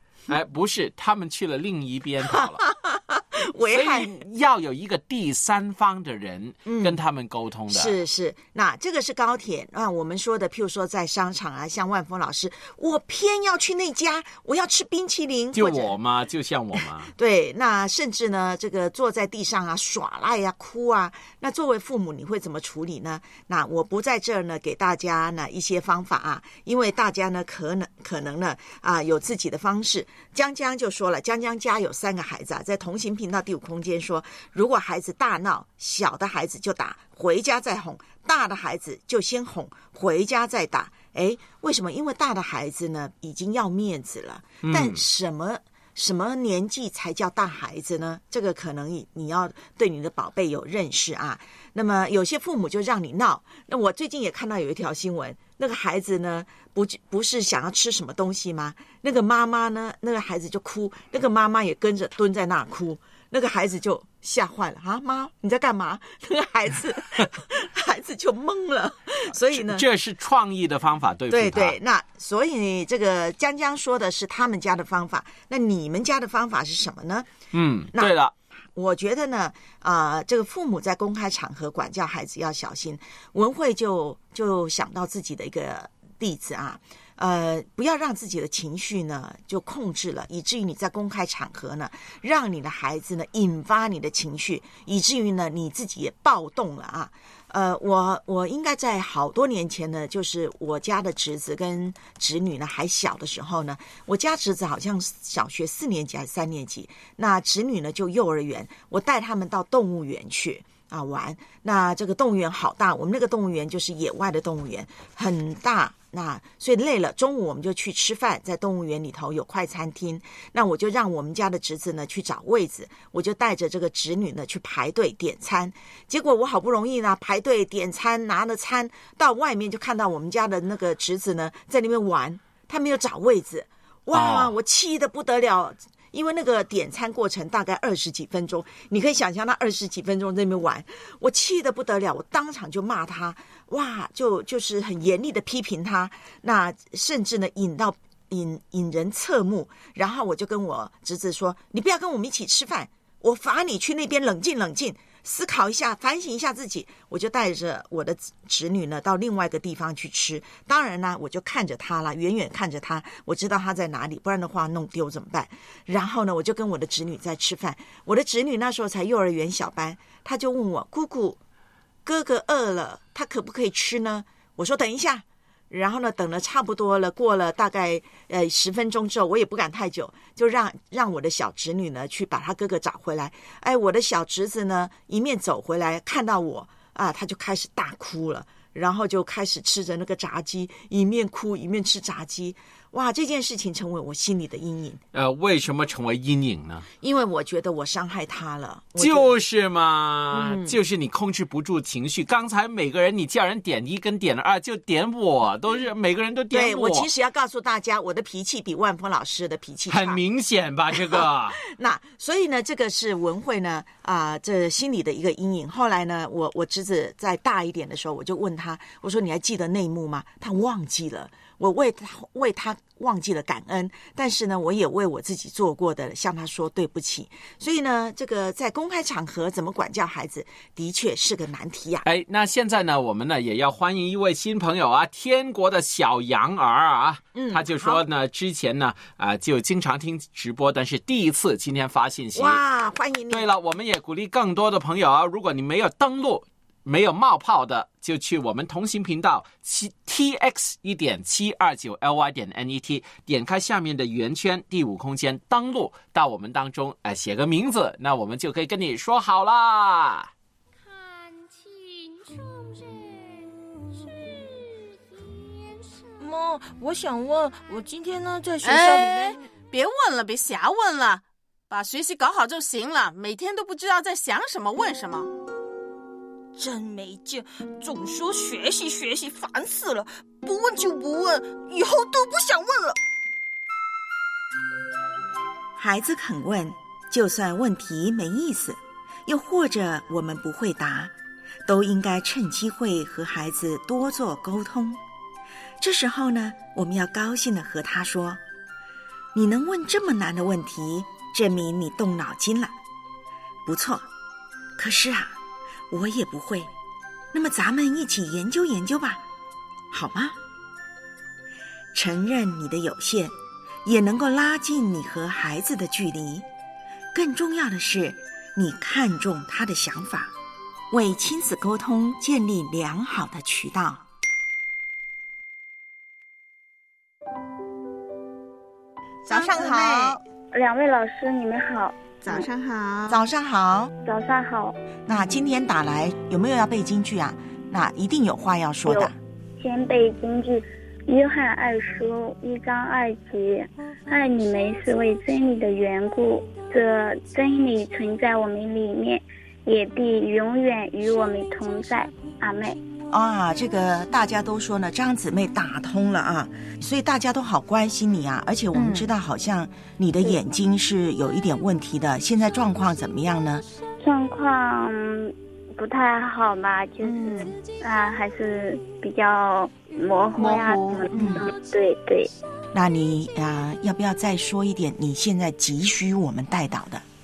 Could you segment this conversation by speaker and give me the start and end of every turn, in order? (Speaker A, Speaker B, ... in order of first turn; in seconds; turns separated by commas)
Speaker A: 0.3-2.6, Speaker B: 2.3-4.2, Speaker A: 3.7-8.0, Speaker B: 6.6-7.0, Speaker B: 7.7-15.9, Speaker A: 15.5-17.1, Speaker B: 17.1-69.8, Speaker A: 44.6-45.0, Speaker A: 69.4-71.8, Speaker B: 71.3-77.3, Speaker A: 77.5-78.3, Speaker B: 78.8-171.4, Speaker A: 134.1-134.5, Speaker B: 172.0-195.0, Speaker A: 195.1-196.8, Speaker B: 197.0-199.3, Speaker A: 199.0-207.1, Speaker B: 200.3-200.8, Speaker B: 206.5-210.2, Speaker A: 209.9-211.6, Speaker B: 210.9-232.1, Speaker A: 232.0-242.6, Speaker B: 237.3-238.0, Speaker B: 242.3-243.5, Speaker A: 243.3-260.3, Speaker C: 266.2-269.4, Speaker D: 268.6-275.3, Speaker C: 276.6-282.9, Speaker B: 285.8-291.1, Speaker B: 291.7-295.0, Speaker B: 295.8-298.4, Speaker B: 299.3-302.7, Speaker B: 303.6-304.0, Speaker B: 304.8-305.3, Speaker B: 305.9-306.7, Speaker B: 307.3-309.2, Speaker B: 309.9-310.4, Speaker B: 311.9-313.3, Speaker B: 313.8-316.4, Speaker B: 317.1-320.3, Speaker B: 320.9-324.0, Speaker C: 329.3-330.1, Speaker B: 329.3-330.2, Speaker E: 330.5-332.5, Speaker C: 332.2-333.2, Speaker B: 333.1-333.9, Speaker E: 334.1-334.7, Speaker B: 335.1-339.1, Speaker E: 338.9-352.8, Speaker B: 353.1-363.6, Speaker E: 364.0-372.3, Speaker B: 367.0-367.4, Speaker C: 370.4-370.8, Speaker B: 370.4-371.5, Speaker B: 372.7-377.0